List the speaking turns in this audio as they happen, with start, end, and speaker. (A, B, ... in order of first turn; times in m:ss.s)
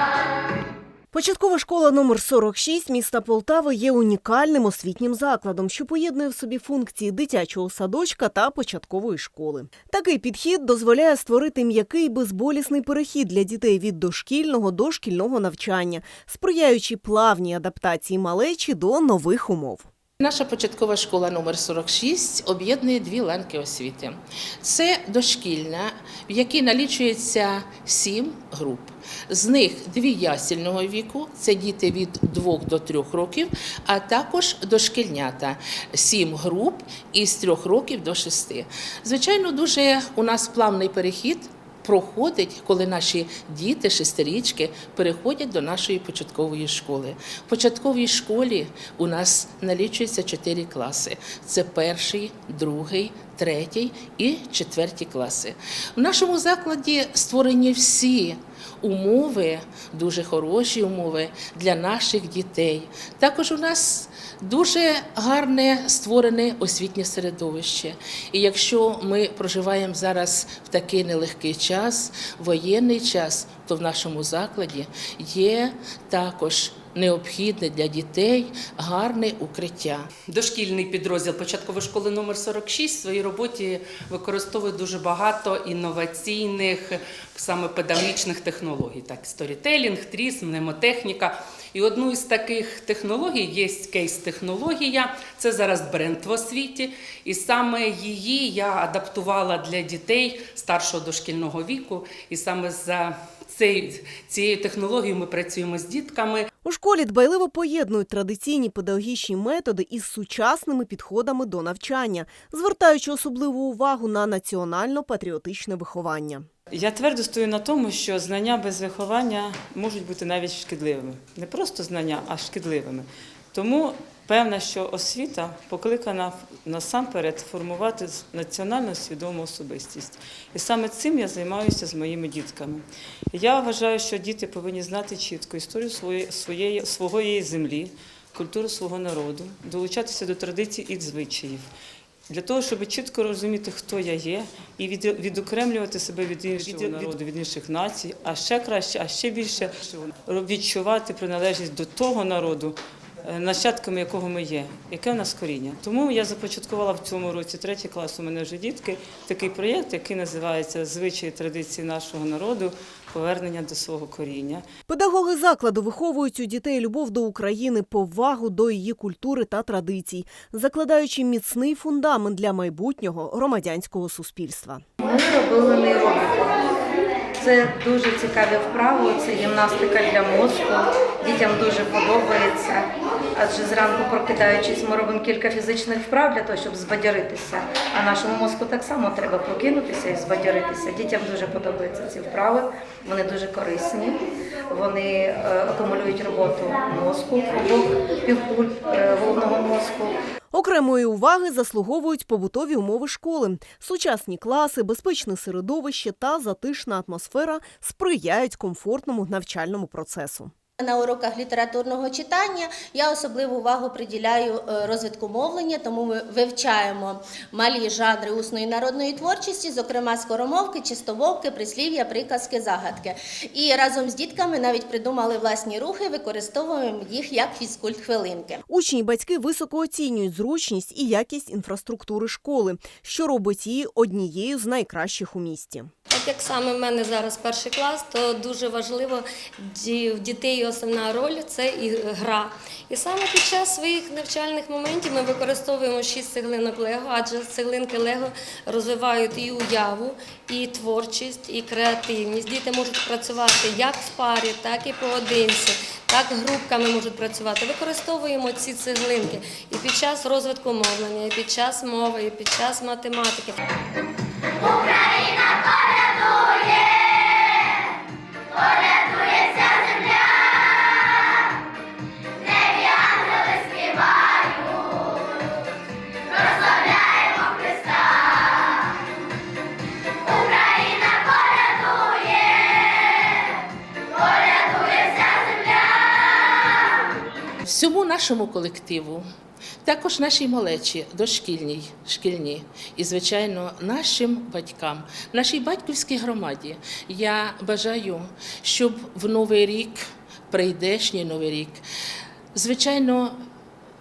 0:01.1-0:19.9 A
0:20.2-1:20.1 B
1:20.3-1:46.5 C
1:46.6-1:56.5 A
1:56.7-2:21.7 D
2:22.3-2:44.6 D
2:44.9-2:54.8 A
2:55.0-2:56.5 E
2:57.4-3:20.2 E
3:20.5-3:30.5 A
3:30.8-3:48.6 F
3:48.7-3:55.9 A
3:56.1-4:23.6 G
4:25.1-4:25.4 F
4:26.2-4:26.5 F
4:29.0-4:30.0 F
4:32.7-4:34.9 F
4:36.4-4:38.0 F
4:44.6-4:45.5 F
4:47.6-4:49.2 B
4:49.8-5:01.8 B
5:02.5-5:03.4 B